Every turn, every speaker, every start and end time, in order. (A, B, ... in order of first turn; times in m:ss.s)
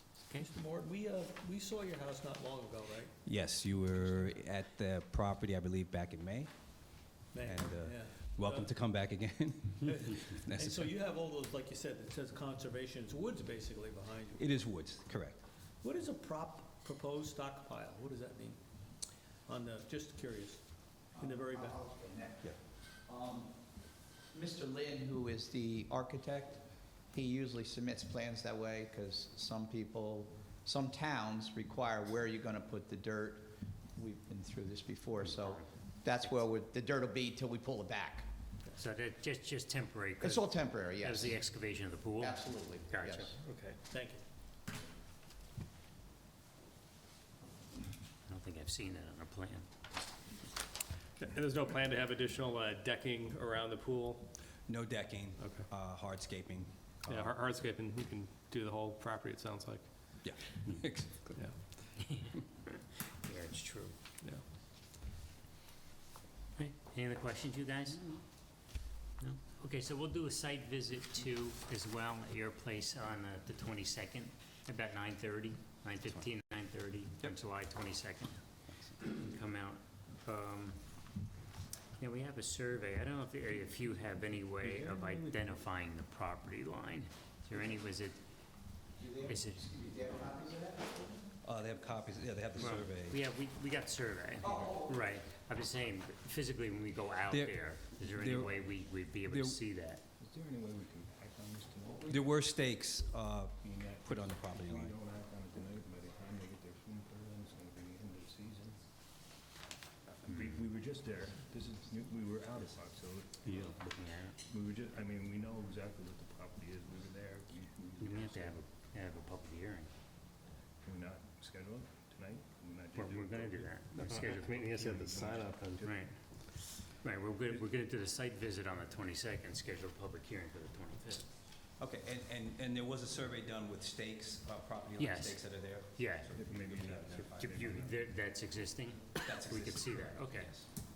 0:00.4-0:03.1 A
0:03.2-0:11.0 B
0:07.3-0:08.7 A
0:09.8-0:14.5 A
0:14.4-0:15.4 B
0:15.8-0:18.6 A
0:19.5-0:21.8 A
0:21.2-0:22.5 C
0:23.1-0:23.7 C
0:24.3-0:38.3 C
0:35.2-0:35.7 D
0:38.8-0:43.3 D
0:40.2-0:41.4 C
0:42.2-0:43.4 C
0:43.4-0:43.8 E
0:43.9-0:44.2 A
0:48.3-0:49.7 D
0:51.2-0:54.2 E
0:54.7-0:57.4 B
0:55.4-0:55.7 E
0:57.1-1:00.1 E
1:00.2-1:01.4 B
1:02.0-1:04.0 D
1:06.6-1:08.2 D
1:09.2-1:18.4 D
1:19.0-1:20.8 D
1:22.0-1:28.2 D
1:24.6-1:25.4 F
1:29.0-1:31.3 C
1:29.2-1:29.7 D
1:31.4-1:33.2 B
1:32.6-1:40.0 D
1:34.4-1:35.0 C
1:37.3-1:38.7 B
1:39.2-1:39.6 B
1:40.2-1:42.3 F
1:42.1-1:45.0 B
1:43.6-1:48.8 F
1:50.2-1:58.6 F
1:50.2-1:50.7 D
1:53.4-1:54.4 D
1:58.0-1:59.9 D
2:00.8-2:06.0 F
2:02.9-2:11.3 D
2:04.0-2:05.9 E
2:11.8-2:17.8 B
2:15.0-2:16.3 D
2:16.3-2:18.2 F
2:17.3-2:20.5 D
2:19.2-2:20.7 B